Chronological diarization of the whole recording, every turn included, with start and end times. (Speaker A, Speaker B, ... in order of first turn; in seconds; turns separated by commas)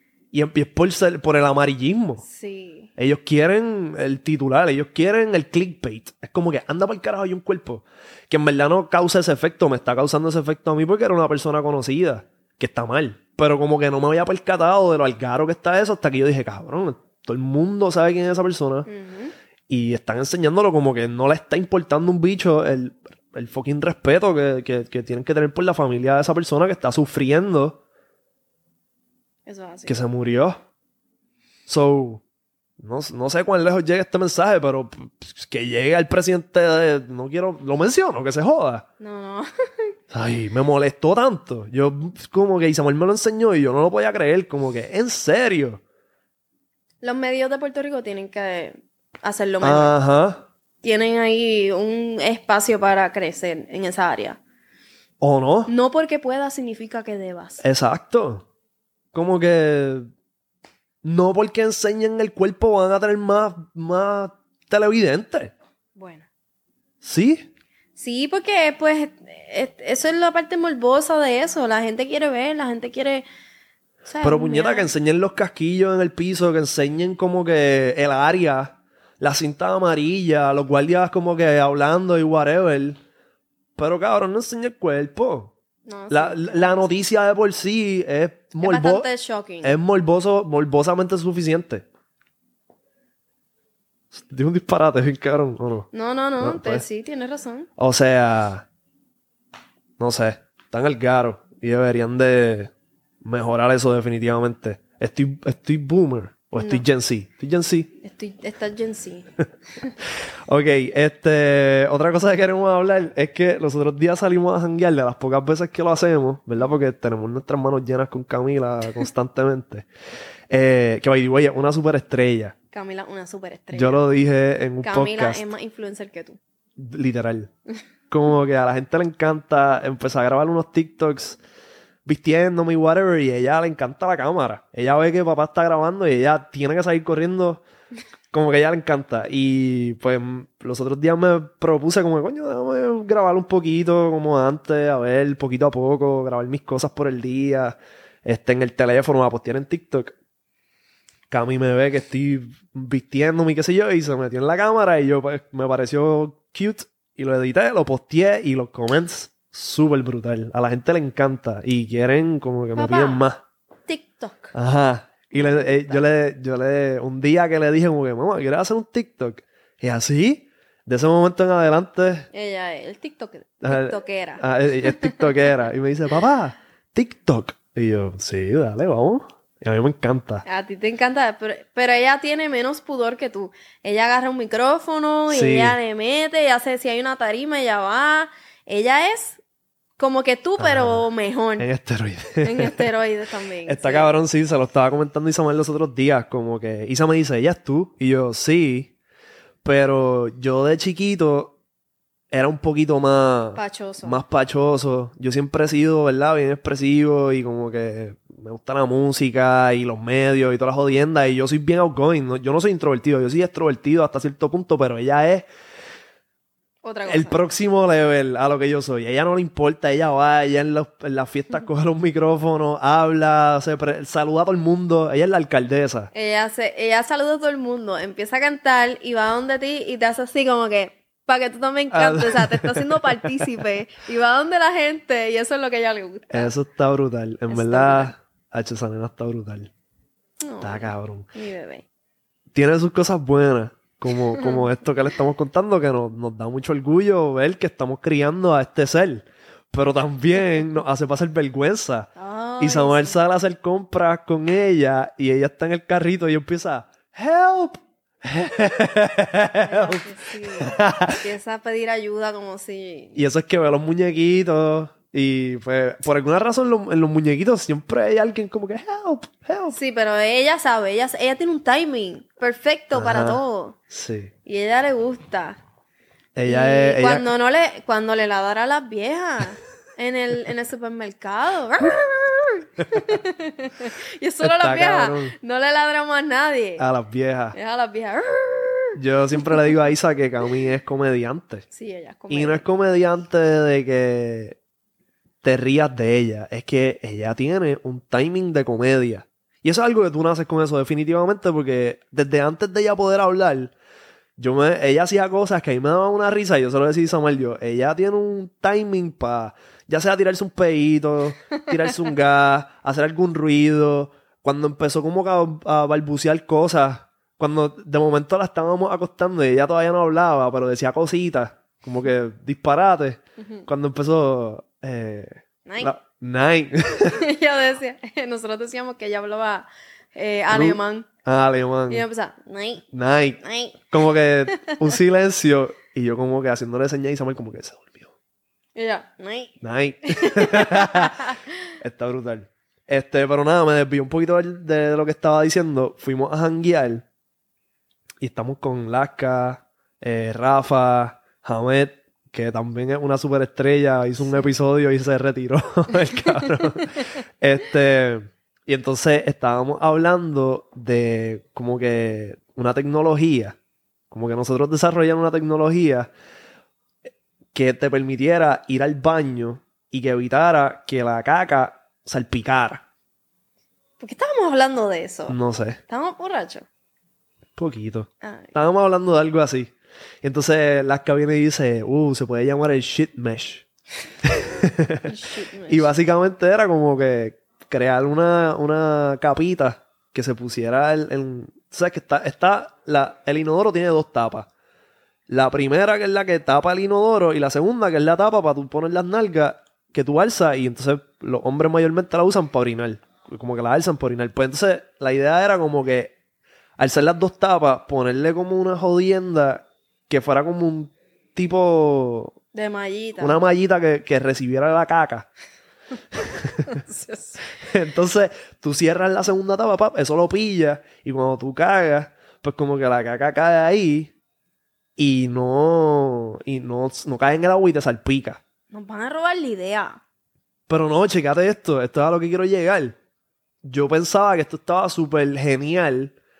Speaker A: 0.3-2.2, Speaker B: 2.2-2.9, Speaker A: 3.0-18.9, Speaker B: 18.9-19.3, Speaker A: 19.7-27.8, Speaker B: 29.4-29.9, Speaker A: 29.9-30.6, Speaker A: 31.7-32.2, Speaker A: 32.8-38.8, Speaker B: 39.0-39.9, Speaker A: 40.1-45.8, Speaker B: 47.0-49.9, Speaker A: 49.6-50.4, Speaker B: 50.8-54.4, Speaker A: 55.2-55.7, Speaker B: 55.7-57.6, Speaker A: 57.6-58.4, Speaker A: 59.1-60.1, Speaker A: 61.0-65.5, Speaker B: 66.0-66.2, Speaker A: 67.0-67.5, Speaker B: 68.0-73.2, Speaker B: 74.0-74.9, Speaker A: 74.2-83.0, Speaker A: 83.8-85.5, Speaker B: 85.8-86.9, Speaker A: 86.1-89.1, Speaker B: 88.6-89.8, Speaker A: 89.6-91.8, Speaker A: 94.1-95.9, Speaker B: 95.9-97.7, Speaker A: 96.4-96.8, Speaker A: 97.8-98.6, Speaker A: 100.0-102.7, Speaker A: 103.2-107.9, Speaker B: 106.5-106.8, Speaker B: 108.0-109.3, Speaker A: 110.5-119.9, Speaker A: 120.5-122.5, Speaker B: 122.7-124.0, Speaker A: 123.7-125.5, Speaker B: 124.8-126.4, Speaker A: 126.8-127.5, Speaker A: 128.1-131.4, Speaker A: 132.0-137.6, Speaker A: 138.3-150.1, Speaker A: 151.3-163.4, Speaker B: 162.7-163.2, Speaker B: 163.9-164.5, Speaker A: 164.5-172.3, Speaker B: 165.3-166.0, Speaker B: 172.3-175.5, Speaker A: 173.6-180.4, Speaker B: 180.4-189.4, Speaker A: 185.3-185.8, Speaker B: 190.0-191.7, Speaker A: 190.6-191.1, Speaker A: 191.6-192.9, Speaker B: 192.4-194.1, Speaker A: 193.7-198.9, Speaker A: 199.6-201.6, Speaker A: 202.3-215.4, Speaker B: 203.6-204.2, Speaker B: 216.8-217.4, Speaker A: 217.0-226.1, Speaker B: 226.1-236.5, Speaker A: 231.9-233.4, Speaker A: 236.3-239.7, Speaker B: 237.5-238.1, Speaker B: 240.4-241.8, Speaker A: 240.6-241.3, Speaker A: 242.5-261.2, Speaker B: 244.4-244.6, Speaker B: 252.2-253.2, Speaker B: 259.5-263.1, Speaker A: 263.1-269.8, Speaker B: 269.7-273.8, Speaker A: 272.9-274.3, Speaker B: 274.4-275.6, Speaker A: 276.3-277.3, Speaker B: 276.4-286.9, Speaker A: 284.4-285.3, Speaker A: 286.8-287.6, Speaker B: 287.5-289.5, Speaker A: 288.9-291.6, Speaker B: 291.7-292.7, Speaker A: 292.3-294.6, Speaker A: 295.4-303.7, Speaker A: 304.4-327.2, Speaker B: 323.4-323.6, Speaker B: 325.6-325.9, Speaker B: 327.0-331.1, Speaker A: 330.5-332.0, Speaker B: 331.9-332.9, Speaker A: 332.9-338.1, Speaker B: 333.4-333.8, Speaker B: 338.7-339.6, Speaker A: 339.6-341.2, Speaker B: 340.1-341.4, Speaker A: 341.8-347.0, Speaker A: 348.2-363.6, Speaker B: 354.2-354.5, Speaker A: 364.1-366.1, Speaker A: 367.5-372.8, Speaker B: 374.0-375.4, Speaker A: 375.3-375.8, Speaker B: 375.9-376.6, Speaker A: 377.6-379.7, Speaker B: 378.2-378.5, Speaker A: 380.2-383.6, Speaker A: 384.3-385.1, Speaker B: 385.0-385.9, Speaker A: 385.7-394.5, Speaker A: 395.3-406.1, Speaker A: 406.8-412.4, Speaker B: 412.5-413.4, Speaker A: 413.2-415.3, Speaker A: 416.2-416.7, Speaker B: 416.6-417.4, Speaker A: 417.6-424.1, Speaker A: 425.0-428.4, Speaker B: 428.7-430.0, Speaker A: 430.7-432.9, Speaker A: 433.6-436.1